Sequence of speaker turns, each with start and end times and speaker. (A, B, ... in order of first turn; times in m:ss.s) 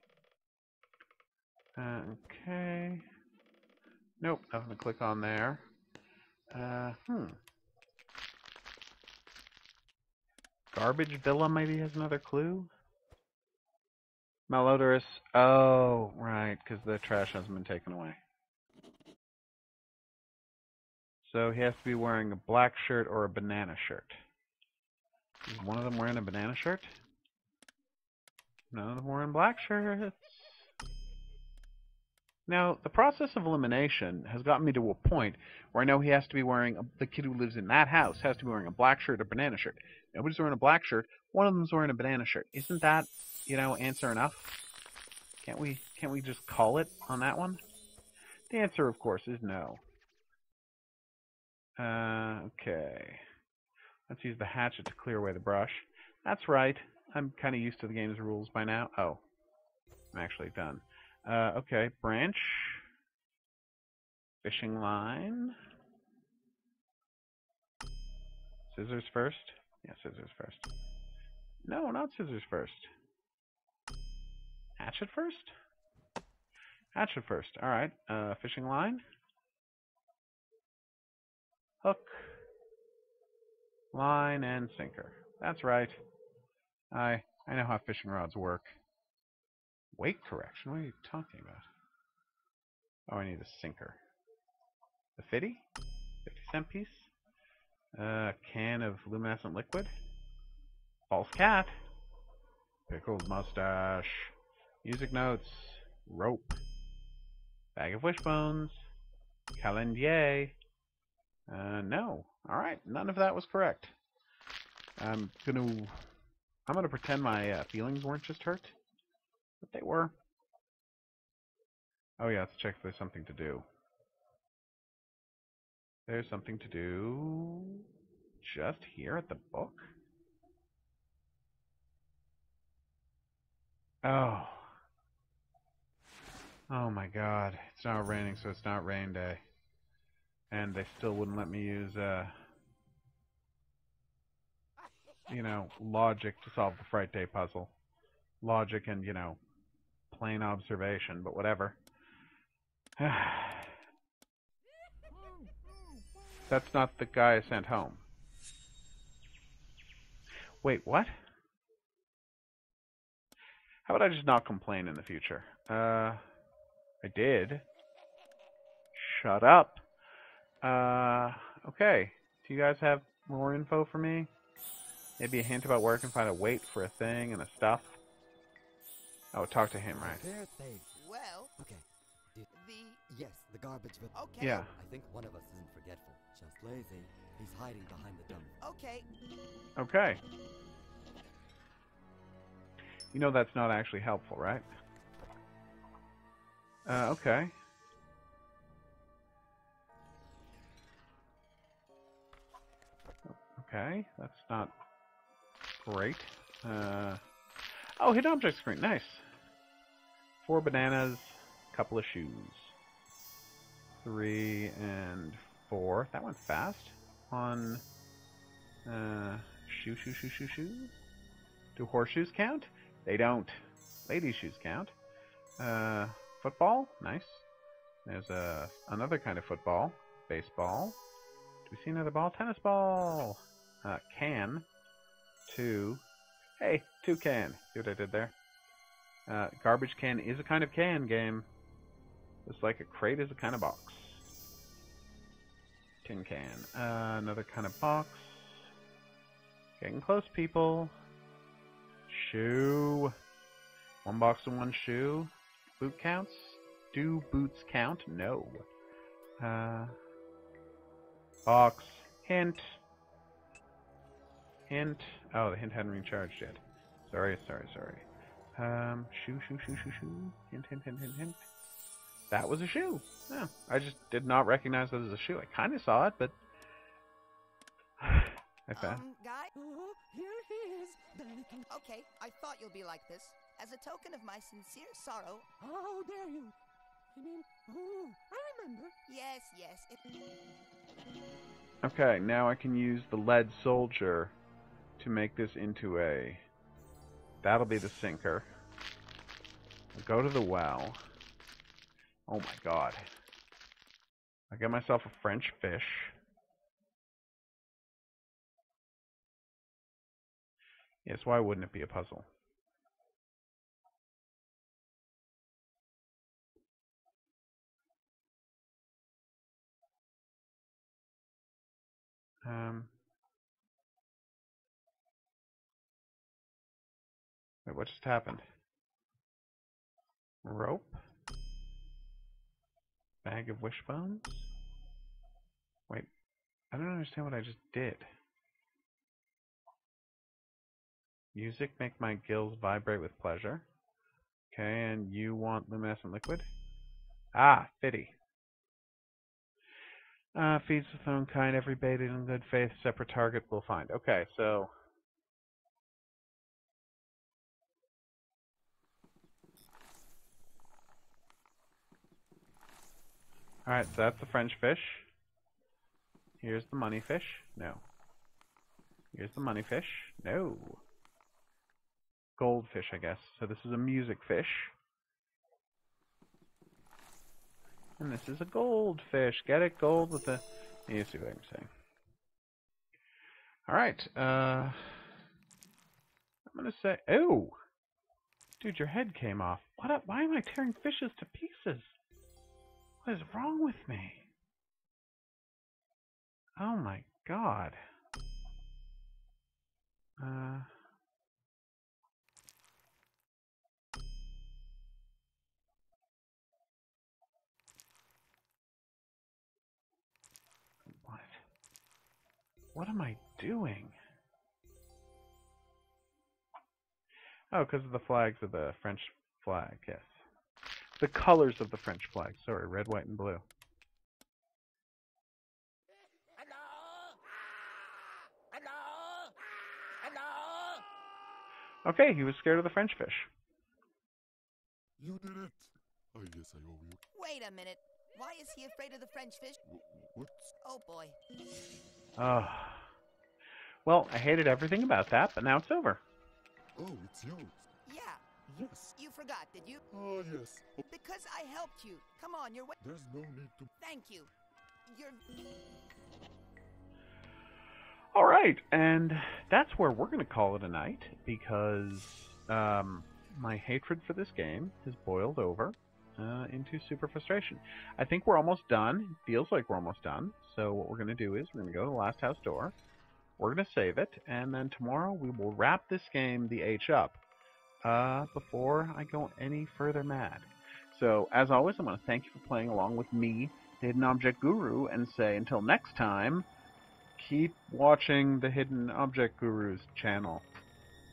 0:01.8-0:03.0 A
0:04.2-0:05.6 A
0:06.5-0:07.4 A
0:10.7-0:12.7 A
0:14.5-0:18.2 A
0:21.2-0:24.2 A
0:25.5-0:26.9 A
0:28.7-0:30.7 A
0:32.5-0:44.6 A
0:45.4-0:47.6 A
0:48.5-0:49.8 A
0:51.8-0:53.2 A
0:54.1-0:59.2 A
1:00.1-1:02.8 A
1:04.4-1:05.6 A
1:08.7-1:10.7 A
1:11.6-1:12.9 A
1:14.8-1:15.5 A
1:16.9-1:19.0 A
1:21.8-1:22.4 A
1:23.9-1:26.0 A
1:26.9-1:28.7 A
1:29.9-1:31.6 A
1:33.1-1:34.0 A
1:35.2-1:35.6 A
1:36.2-1:37.1 A
1:38.0-1:39.9 A
1:41.1-1:41.8 A
1:42.9-1:46.6 A
1:47.7-1:48.9 A
1:49.6-1:50.6 A
1:51.5-1:53.9 A
1:55.0-1:56.0 A
1:56.7-1:58.8 A
1:59.6-2:00.1 A
2:02.2-2:03.6 A
2:06.1-2:07.8 A
2:08.4-2:09.9 A
2:14.0-2:14.7 A
2:16.7-2:19.4 A
2:20.5-2:22.3 A
2:25.3-2:27.7 A
2:28.4-2:29.4 A
2:30.1-2:31.8 A
2:33.0-2:33.8 A
2:36.5-2:38.0 A
2:40.6-2:41.1 A
2:43.8-2:46.2 A
2:47.0-2:47.6 A
2:48.9-2:49.8 A
2:50.6-2:54.3 A
2:55.2-2:58.0 A
2:59.3-3:00.2 A
2:59.9-3:01.0 B
3:01.0-3:01.5 C
3:01.6-3:02.5 B
3:02.5-3:03.0 C
3:03.1-3:04.1 B
3:04.1-3:04.7 C
3:04.4-3:04.7 A
3:04.7-3:08.5 B
3:08.6-3:09.1 C
3:09.8-3:10.2 A
3:13.1-3:14.6 A
3:16.8-3:17.5 A
3:23.3-3:24.7 A
3:25.8-3:27.2 A
3:28.0-3:29.2 A
3:30.4-3:32.7 A
3:34.0-3:37.8 A
3:38.8-3:41.0 A
3:41.8-3:43.5 A
3:44.0-3:44.9 A
3:45.6-3:47.4 A
3:48.0-3:51.0 A
3:51.7-3:54.7 A
3:55.5-3:56.0 A
3:56.6-3:58.3 A
3:59.3-4:01.5 A
4:02.4-4:04.2 A
4:06.0-4:08.7 A
4:09.8-4:10.9 A
4:12.1-4:13.1 A
4:14.0-4:18.6 A
4:19.4-4:19.9 A
4:21.4-4:22.8 A
4:24.7-4:28.0 A
4:28.6-4:31.4 A
4:32.3-4:36.3 A
4:38.0-4:39.0 A
4:38.7-4:39.5 C
4:39.5-4:41.7 D
4:41.7-4:45.5 C
4:45.6-4:46.5 D
4:47.1-4:48.9 D
4:49.1-4:50.0 C
4:51.8-4:54.3 A
4:55.0-4:56.4 A
4:57.4-4:58.5 A
4:59.9-5:01.0 A
5:02.3-5:03.0 A
5:04.5-5:06.1 A
5:11.0-5:12.2 A
5:22.4-5:22.9 A
5:27.6-5:28.4 A
5:30.4-5:31.0 A
5:33.2-5:34.5 A
5:36.7-5:38.1 A
5:41.3-5:43.6 A
5:44.5-5:46.5 A
5:47.3-5:48.1 A
5:50.3-5:54.7 A
6:03.6-6:05.1 A
6:06.4-6:07.8 A
6:09.1-6:10.8 A
6:12.4-6:14.7 A
6:18.0-6:21.7 A
6:23.7-6:25.1 A
6:26.5-6:27.6 A
6:28.6-6:32.0 A
6:33.0-6:34.2 A
6:36.6-6:37.8 A
6:40.2-6:40.7 A
6:50.9-6:51.4 A
6:52.7-6:53.9 A
6:57.5-7:00.2 A
7:01.0-7:03.4 A
7:11.8-7:13.3 A
7:15.0-7:17.0 E
7:17.1-7:19.6 C
7:19.6-7:20.5 E
7:20.6-7:21.2 C
7:22.2-7:22.9 A
7:23.8-7:26.0 A
7:26.8-7:27.6 E
7:27.8-7:29.8 C
7:28.5-7:28.9 E
7:29.9-7:30.9 E
7:30.9-7:32.8 C
7:32.8-7:33.7 E
7:33.8-7:34.3 C
7:34.8-7:35.2 C
7:38.1-7:52.7 A
7:53.4-7:57.2 A
7:57.8-8:06.5 A
8:07.2-8:10.5 A